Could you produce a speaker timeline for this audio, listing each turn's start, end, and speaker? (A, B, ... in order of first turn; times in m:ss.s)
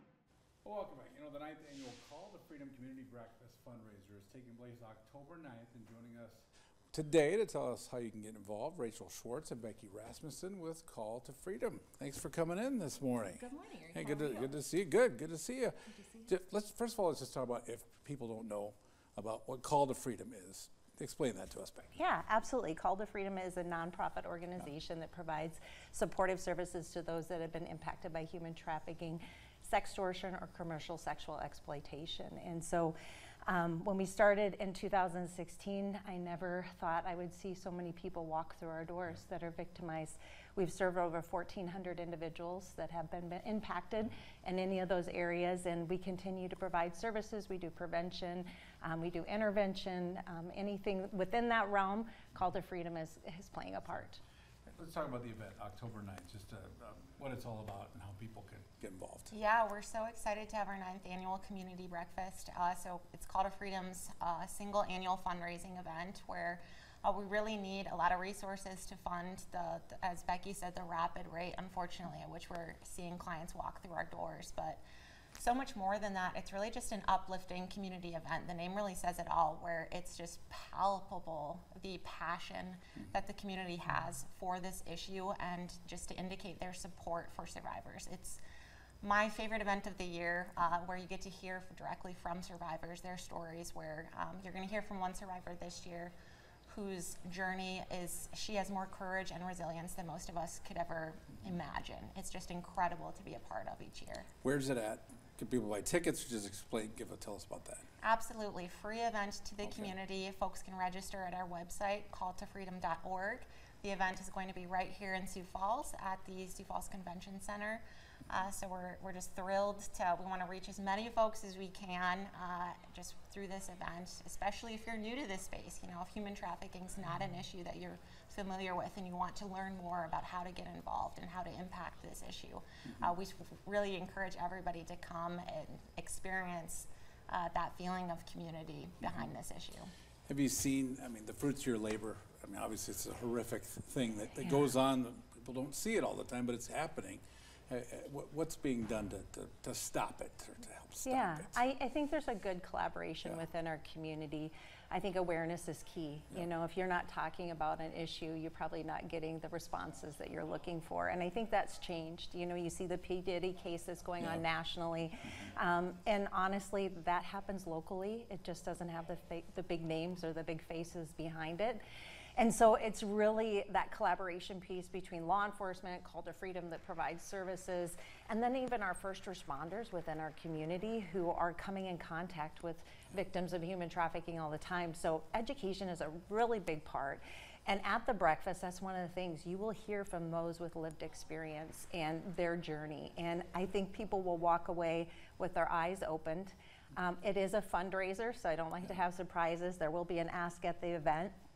0:00.6-0:21.9 A
0:13.4-0:14.5 B
0:21.9-0:32.9 C
0:33.4-0:54.2 C
0:54.7-0:59.3 A
0:59.3-1:14.8 B
1:15.4-1:28.4 B
1:29.0-1:36.1 B
1:36.7-1:44.3 B
1:44.4-1:47.8 A
1:48.0-2:19.9 B
1:49.6-1:49.9 A
2:12.8-2:13.1 A
2:19.0-2:19.3 A
2:20.3-2:31.5 A
2:31.0-2:51.8 C
2:52.4-3:21.3 C